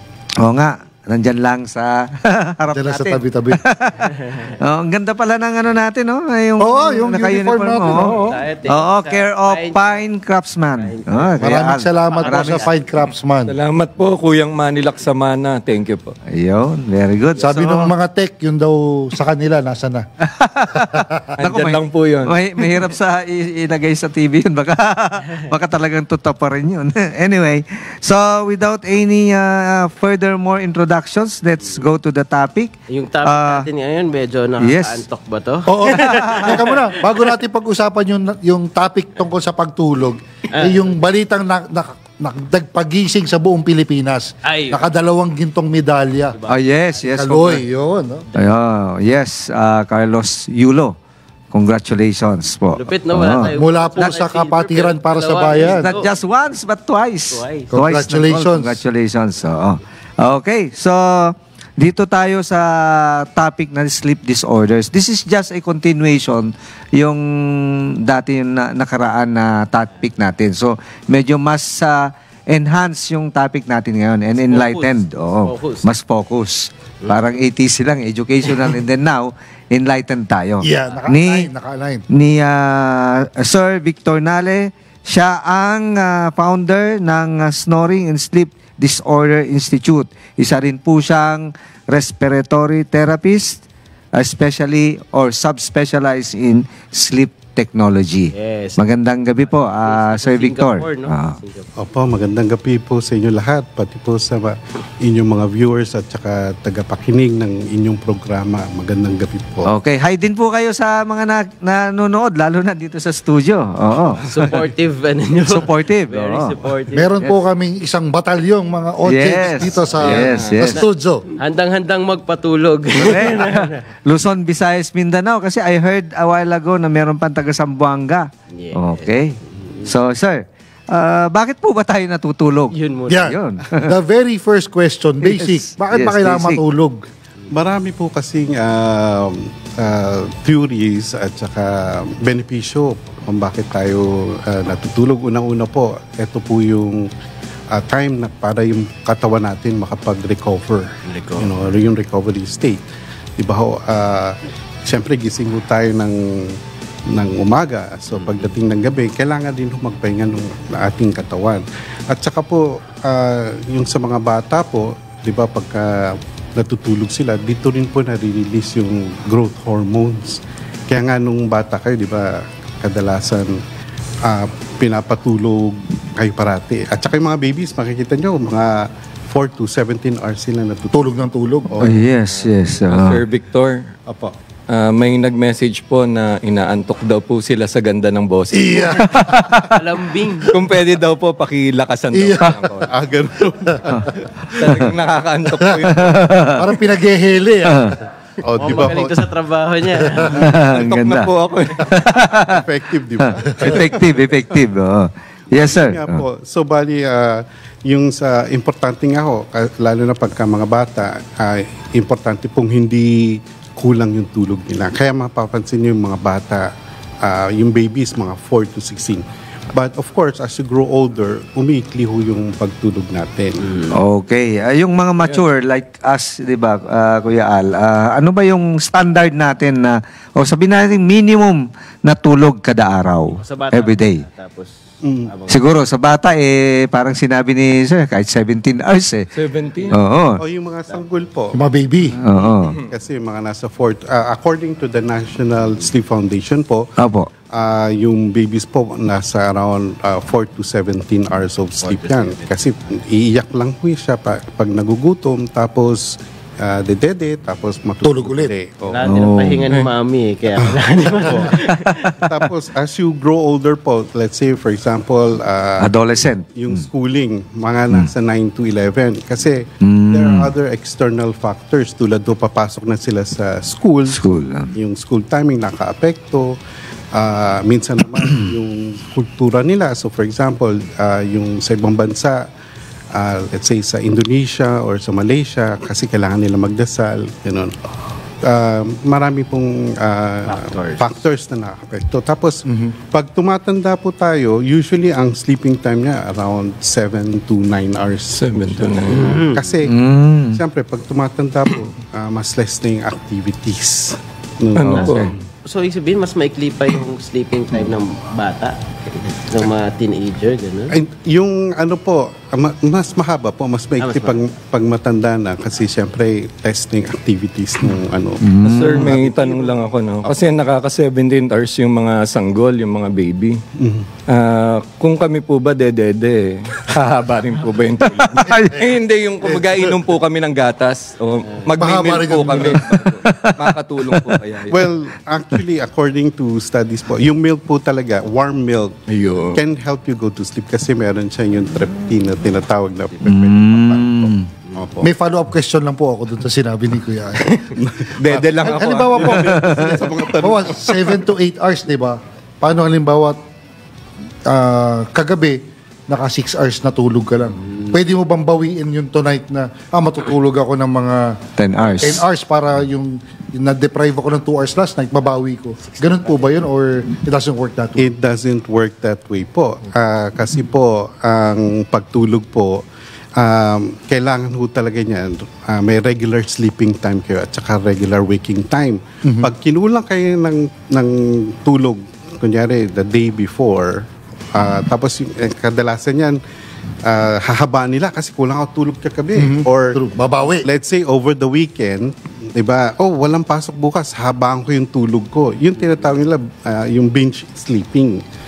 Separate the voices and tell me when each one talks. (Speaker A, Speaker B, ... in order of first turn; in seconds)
Speaker A: 0.4-4.1, 4.6-12.6, 16.3-17.7, 20.2-33.7, 34.6-35.0, 36.0-36.5, 46.5-47.6, 48.4-50.9, 51.5-54.1, 55.6-81.5, 82.1-93.6, 94.2-101.4, 109.7-114.7, 115.5-116.6, 119.1-120.8, 122.9-133.9, 135.2-136.6, 181.8-183.2, 189.1-189.8, 195.9-196.6, 197.7-197.9, 200.4-201.3, 201.9-202.6, 203.2-206.2, 223.9-234.2, 235.5-239.3, 239.9-240.4, 242.2-242.8, 247.0-247.3, 259.1-259.7, 265.8-266.8, 269.8-270.5, 274.1-274.7, 299.9-300.6, 318.4-319.1, 328.1-328.9, 333.2-334.4, 343.2-344.5, 361.6-362.3
Speaker B: 2.7-3.6, 6.6-8.3, 11.4-13.5, 17.4-20.1, 20.8-21.3, 35.7-46.4, 47.1-48.3, 53.5-56.0, 57.7-58.8, 80.6-82.0, 116.9-121.2, 133.1-137.0, 180.9-181.8, 188.5-189.5, 192.1-192.6, 196.6-198.0, 241.5-242.2, 258.0-258.5, 292.7-292.9, 329.4-329.8, 331.8-332.9, 345.0-347.5, 348.3-353.4, 354.5-361.4, 362.0-368.1, 379.2-379.5, 389.4-390.7
Speaker C: 4.0-4.6, 7.9-10.1, 10.7-13.0, 32.9-36.9, 40.5-40.9, 44.5-44.9, 46.3-46.6, 52.7-56.2, 57.3-57.7, 74.4-75.9, 77.0-77.3, 98.3-98.8, 99.4-101.7, 114.2-117.2, 120.1-120.8, 121.4-123.8, 128.5-129.9, 132.7-133.3, 151.1-151.5, 158.1-158.6, 189.7-190.5, 198.6-200.5, 223.6-224.0, 233.3-234.7, 235.3-235.7, 251.8-252.6, 258.9-262.3, 290.5-291.2, 299.1-299.8, 304.9-310.9, 314.0-314.4
Speaker D: 13.5-16.1, 17.5-17.9, 21.4-22.4, 120.0-120.7, 182.9-183.8, 184.7-189.3, 190.5-192.9, 194.6-196.4, 200.7-201.9, 239.3-239.9, 298.4-299.4, 304.8-305.3, 318.6-323.6, 324.3-334.9, 339.1-339.6, 348.2-349.4
Speaker E: 101.8-109.7, 137.5-147.1, 147.7-152.8, 153.4-173.6, 174.2-181.1, 181.7-182.1, 184.1-184.3, 192.8-194.8, 198.4-199.2, 200.3-200.7, 202.4-204.4, 205.5-216.7, 217.2-223.6, 235.0-235.3, 240.4-241.6, 242.9-246.9, 247.5-259.1, 260.6-265.9, 266.5-274.2, 274.8-276.6, 277.1-282.5, 283.1-287.7, 288.4-300.0, 300.6-305.4, 310.9-320.4, 323.8-324.1, 334.7-338.9, 339.5-345.1, 347.8-351.3, 368.0-372.9, 373.4-386.4, 387.0-390.0, 390.6-398.2